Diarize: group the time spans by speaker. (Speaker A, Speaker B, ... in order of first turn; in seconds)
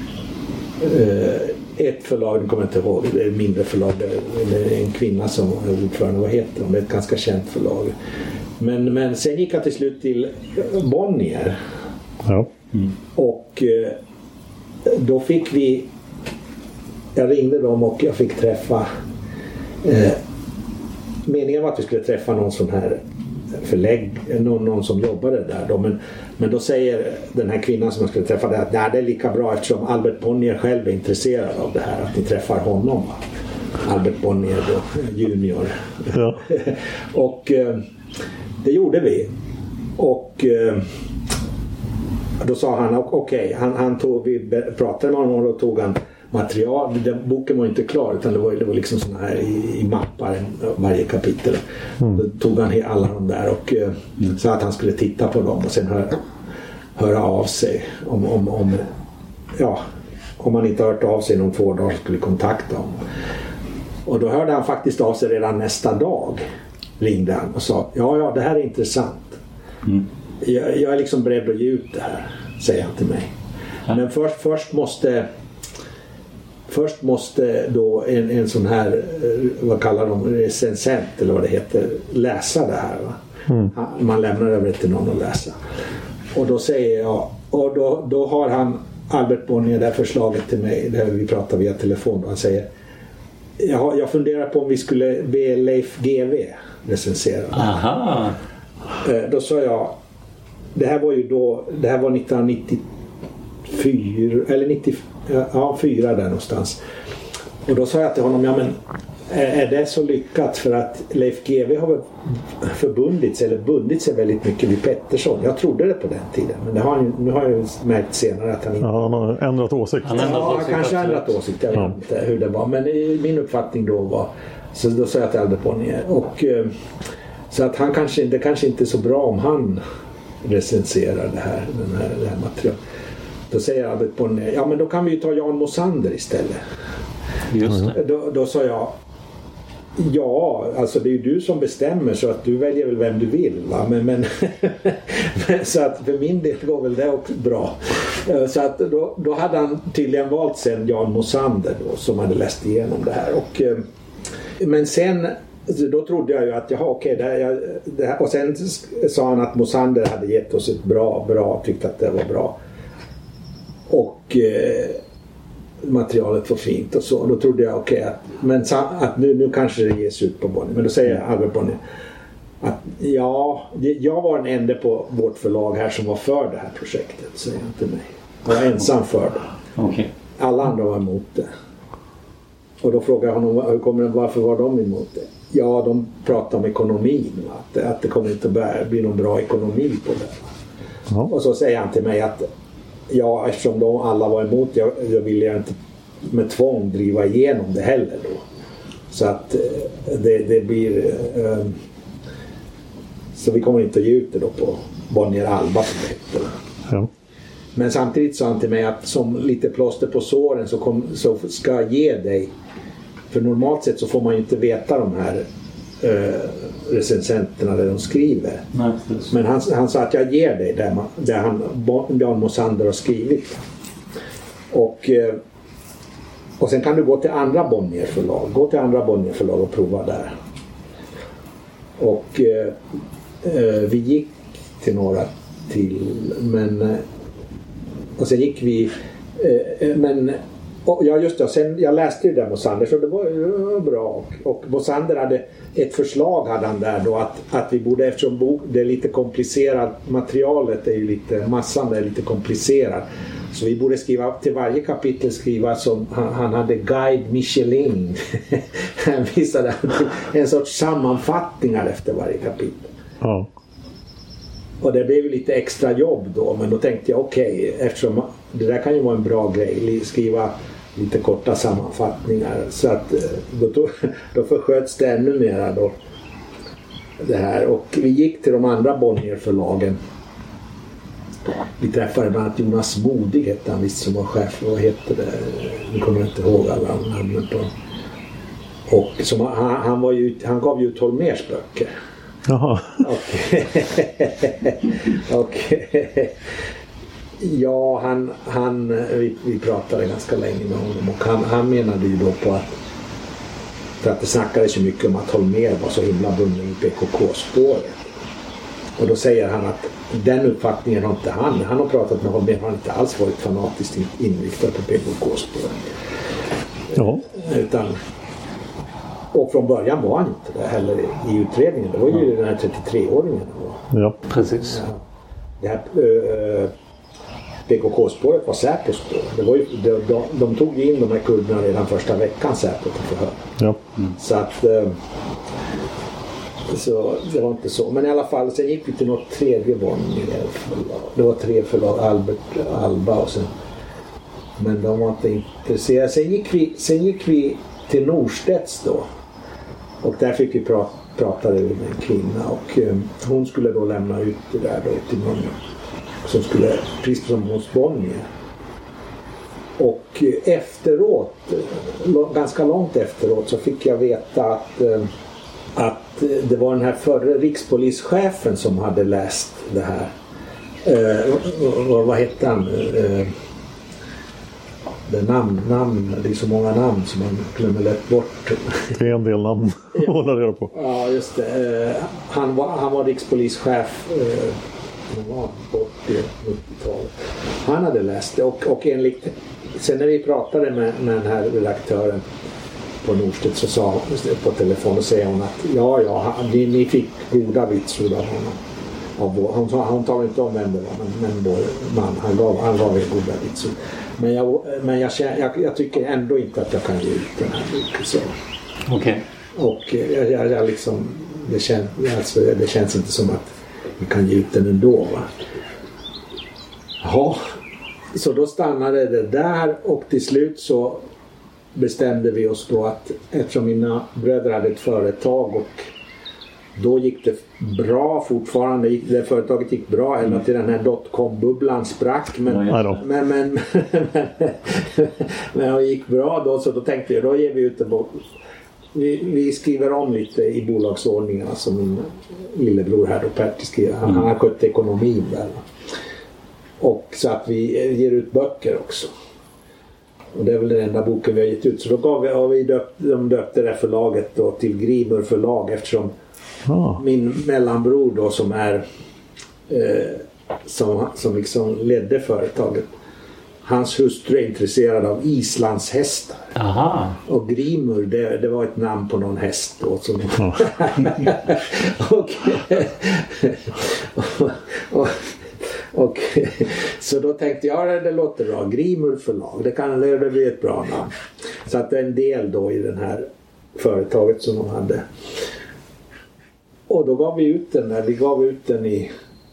Speaker A: 0.8-7.9, 8.6-11.6, 13.2-14.0, 14.9-15.9, 17.1-18.9, 19.8-20.2, 21.2-23.0, 23.5-33.2, 33.8-37.8, 38.6-39.3, 40.0-40.9, 42.4-51.6, 52.1-56.2, 57.0-58.9, 59.6-59.8, 60.4-63.0, 64.1-66.4, 67.0-69.4, 70.4-73.3, 73.9-75.3, 76.7-83.2, 83.7-85.6, 86.3-92.7, 93.6-97.7, 99.0-100.0, 100.8-102.8, 103.7-106.8, 107.7-108.8, 109.3-118.9, 120.2-126.7, 127.5-129.8, 130.4-132.8, 133.5-136.6, 137.9-138.9, 140.0-153.8, 154.6-162.6, 163.9-165.0, 165.8-171.8, 172.6-179.4, 180.4-181.5, 182.8-190.5, 191.3-192.5, 193.1-198.4, 199.1-201.8, 203.4-206.5, 207.8-212.5, 213.3-215.4, 216.0-218.6, 219.3-223.6, 224.7-225.4, 226.6-230.3, 232.0-232.8, 233.4-237.0, 238.2-262.9, 264.8-276.0, 277.2-280.0, 281.8-287.7, 288.9-291.9, 293.0-296.3, 297.4-302.8, 304.0-308.0, 309.0-315.8, 316.9-318.0, 319.3-323.8, 324.6-325.0, 325.6-326.7, 327.7-333.4, 334.2-335.0, 336.7-343.5, 344.6-349.1, 350.0-355.6, 356.2-358.3, 359.8-365.1, 365.8-370.1, 370.8-373.3, 375.1-378.9, 380.7-384.6, 385.1-392.2, 393.0-398.6, 399.2-408.3, 409.6-415.3, 417.0-417.4, 418.1-421.0, 421.8-425.9, 426.8-438.2, 438.9-445.6, 446.8-449.1, 450.3-456.1, 457.0-458.8, 459.7-462.9, 463.6-466.4, 467.3-475.3, 475.9-481.1, 481.6-485.1, 486.9-489.1
Speaker B: 12.2-12.5, 36.1-36.4, 118.8-120.6, 137.6-137.9, 263.2-263.5, 292.5-293.1, 316.9-317.2, 378.9-380.7, 432.7-433.0, 456.7-457.0
Speaker C: 97.5-98.4, 120.0-121.3, 137.5-137.9, 179.8-180.1, 218.7-219.3, 324.3-324.8, 408.9-409.2, 432.5-433.0, 466.6-467.2